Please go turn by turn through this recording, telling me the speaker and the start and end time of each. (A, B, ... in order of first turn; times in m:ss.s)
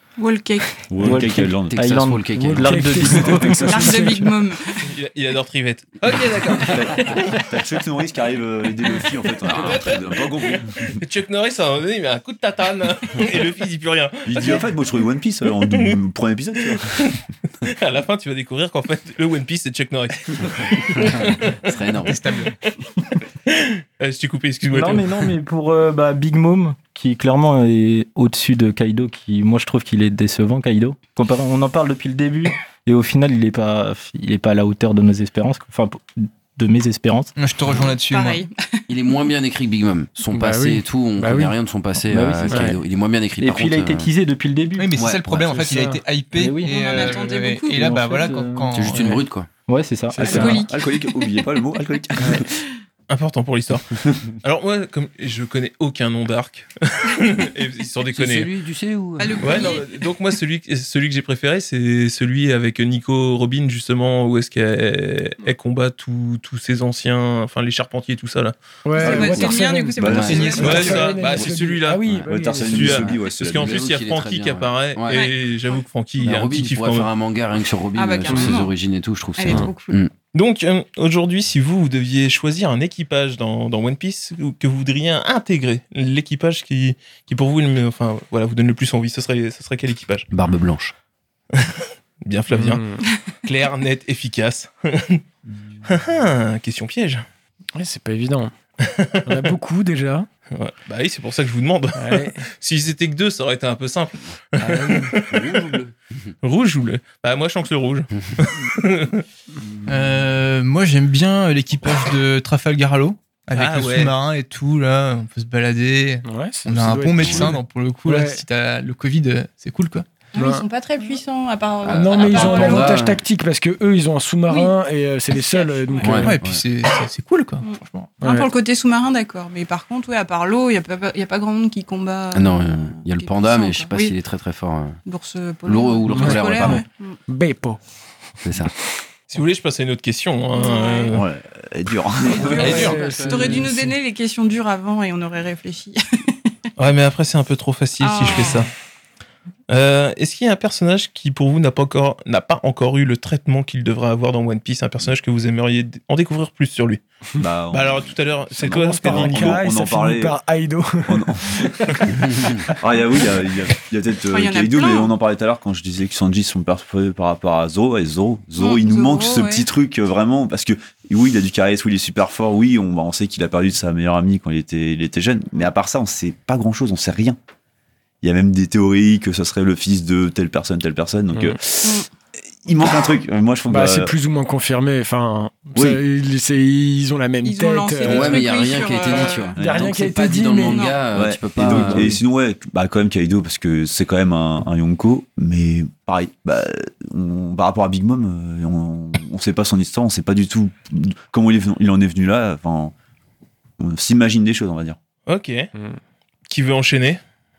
0:00.2-0:00.8 A
0:00.9-0:01.8 B
0:01.0-0:03.9 C
0:01.7-0:03.0 D
0:02.4-0:04.5 E
0:03.7-0:04.6 A
0:04.8-0:07.4 F
0:06.6-0:11.0 B
0:09.4-0:14.7 F
0:14.2-0:17.2 B
0:15.7-0:16.0 F
0:16.7-0:22.1 F
0:21.6-0:22.2 D
0:22.1-0:22.5 G
0:23.5-0:25.3 F
0:24.7-0:37.3 C
0:37.4-0:38.4 G
0:38.1-0:38.9 A
0:38.9-0:44.1 D
0:40.3-0:41.6 E
0:42.0-0:42.7 C
0:42.5-0:42.8 E
0:43.4-0:44.9 C
0:44.8-0:49.1 G
0:45.0-0:45.7 D
0:45.5-0:46.0 E
0:45.9-0:48.9 C
0:46.6-0:47.8 A
0:48.7-0:49.5 D
0:49.7-0:50.6 C
0:50.1-0:50.6 E
0:50.2-0:51.4 A
0:50.3-0:52.5 B
0:52.3-0:52.6 A
0:53.1-0:58.5 F
0:58.1-0:59.8 D
0:59.2-0:59.8 A
0:59.4-1:08.6 F
1:08.8-1:13.2 E
1:09.0-1:11.1 A
1:09.0-1:11.5 B
1:10.0-1:10.7 D
1:10.4-1:12.0 F
1:12.2-1:13.9 B
1:12.6-1:17.1 F
1:13.5-1:15.3 D
1:15.1-1:15.7 A
1:16.2-1:20.1 D
1:18.0-1:18.7 A
1:18.3-1:18.6 E
1:19.4-1:20.0 A
1:20.3-1:30.3 F
1:30.3-1:30.9 D
1:31.5-1:32.8 F
1:32.5-1:33.0 E
1:33.4-1:35.2 F
1:35.9-1:37.2 F
1:37.8-1:38.5 E
1:38.8-1:39.5 F
1:39.3-1:40.3 E
1:40.5-1:45.8 F
1:42.0-1:42.4 E
1:44.6-1:46.3 D
1:46.4-1:49.2 F
1:49.9-2:00.1 G
1:53.5-1:54.1 F
1:56.2-1:58.4 E
1:57.2-1:57.5 D
2:00.3-2:03.0 A
2:00.4-2:00.6 E
2:01.8-2:03.2 D
2:01.9-2:06.4 E
2:05.3-2:06.2 A
2:06.0-2:06.6 D
2:06.2-2:08.1 G
2:07.6-2:14.2 A
2:08.2-2:08.5 E
2:12.3-2:15.0 D
2:15.1-2:17.2 A
2:15.6-2:16.8 D
2:16.1-2:16.5 E
2:17.3-2:17.8 E
2:18.4-2:18.7 D
2:19.3-2:21.2 F
2:20.5-2:21.1 A
2:21.1-2:22.9 B
2:22.2-2:26.5 A
2:22.4-2:23.7 D
2:22.4-2:23.9 E
2:22.6-2:23.0 F
2:26.8-2:28.7 F
2:28.0-2:28.7 A
2:29.7-2:37.0 F
2:37.4-2:40.4 B
2:37.7-2:39.6 F
2:38.6-2:42.7 E
2:41.1-2:57.4 B
2:44.3-2:45.1 A
2:48.6-2:49.7 A
2:58.2-3:02.0 B
3:01.8-3:02.1 A
3:02.6-3:04.1 B
3:03.7-3:08.5 E
3:05.7-3:06.0 B
3:07.4-3:09.6 A
3:08.0-3:12.2 D
3:09.6-3:09.9 B
3:09.6-3:11.0 E
3:10.7-3:11.0 A
3:11.1-3:22.9 B
3:11.7-3:12.1 E
3:23.8-3:25.0 B
3:25.3-3:25.7 F
3:26.5-3:27.2 F